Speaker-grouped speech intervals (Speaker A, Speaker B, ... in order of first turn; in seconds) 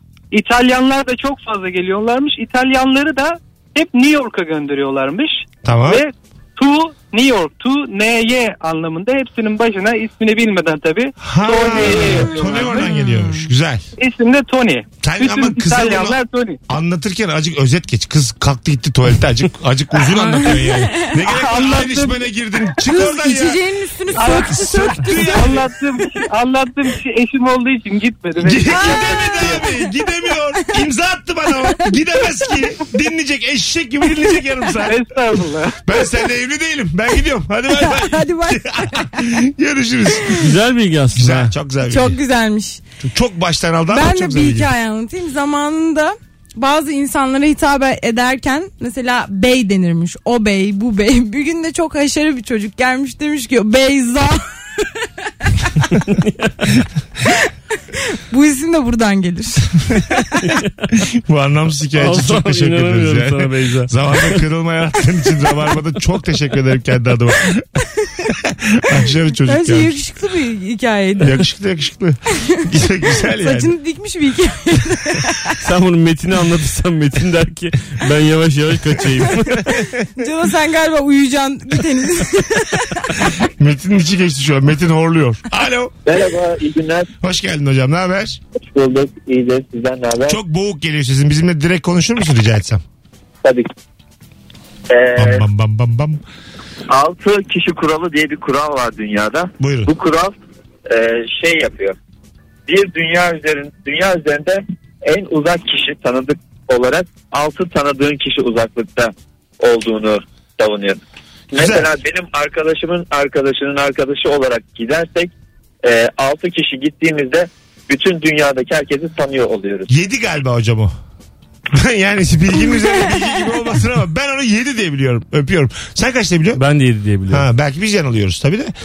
Speaker A: 0.3-12.9, 14.0-16.6, 21.2-22.3, 24.2-24.6, 25.1-29.7, 34.8-35.8
Speaker B: 5.6-6.0, 11.2-13.8, 15.0-16.2, 16.7-23.6, 24.1-25.7, 28.4-35.1, 35.8-40.5, 41.1-42.2, 43.0-44.7, 61.1-67.7, 68.3-70.0, 71.2-73.7, 83.4-85.9, 87.2-88.4, 90.3-92.8, 95.2-96.2, 99.6-99.9, 111.5-111.9, 119.9-120.9, 121.7-126.6, 127.3-128.7
Speaker C: 12.0-13.5, 20.2-21.1, 22.8-25.6, 28.7-30.0, 37.7-39.2, 41.9-42.8, 43.9-55.0, 58.1-60.3, 69.4-71.4, 73.3-75.6, 79.7-83.3, 122.8-123.2
Speaker D: 40.4-41.5, 56.0-56.7, 60.5-60.9, 62.0-64.4, 75.6-79.7, 126.5-127.5
Speaker E: 86.0-87.1, 88.6-90.4, 94.9-95.4, 96.9-100.3, 100.9-102.0, 102.7-111.0, 111.5-115.3, 115.8-119.9